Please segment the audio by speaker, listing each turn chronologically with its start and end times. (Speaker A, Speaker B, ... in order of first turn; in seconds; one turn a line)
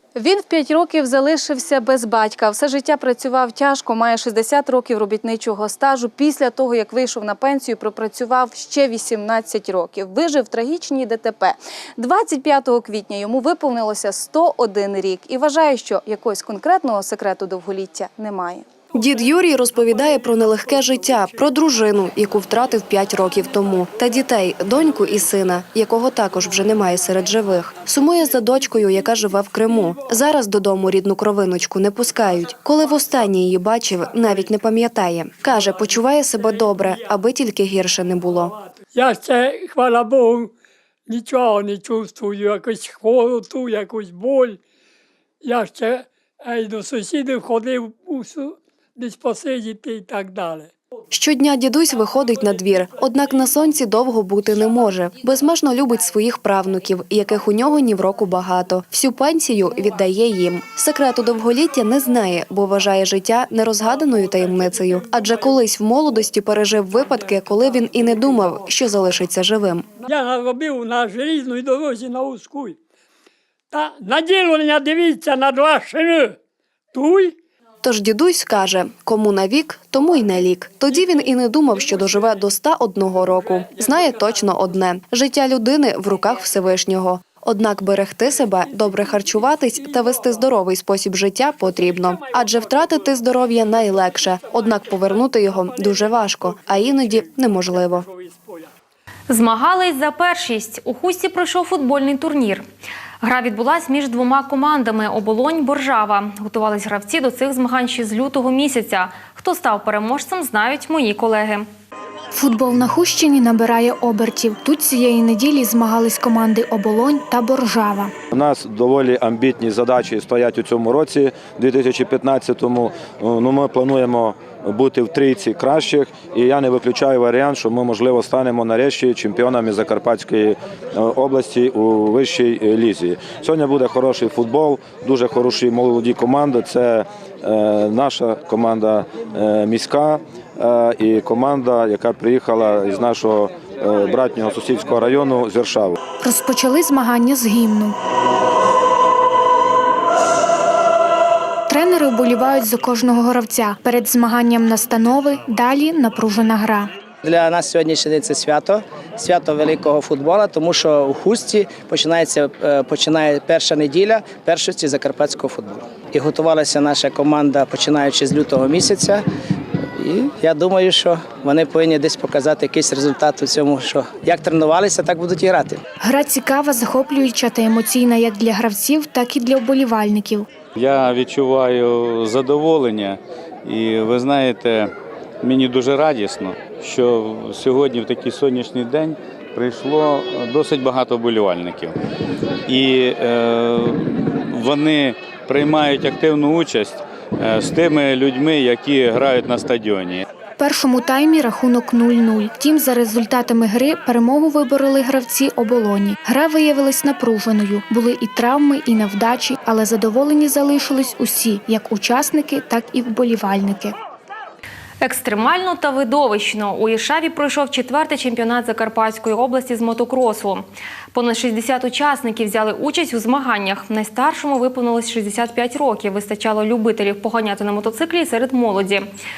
Speaker A: 0.2-18.7
Speaker B: 18.9-38.5
Speaker C: 38.9-40.5
Speaker C: 41.1-44.6
Speaker C: 45.4-50.7
Speaker B: 51.1-69.9
Speaker C: 70.0-72.8
Speaker C: 73.7-76.4
Speaker C: 76.9-77.3
Speaker B: 77.8-98.1
Speaker C: 92.2-93.0
Speaker C: 96.8-98.7
Speaker D: 99.3-102.7
Speaker D: 103.2-111.7
Speaker E: 112.3-118.1
Speaker F: 118.3-146.0
Speaker E: 146.2-148.0
Speaker E: 151.7-156.9
Speaker G: 157.2-169.2
Speaker G: 169.9-175.8
Speaker E: 176.0-180.5
Speaker H: 180.8-184.9
Speaker H: 185.4-191.9
Speaker H: 192.7-193.9
Speaker H: 194.6-200.2
Speaker E: 200.6-213.9
Speaker D: 215.0-229.1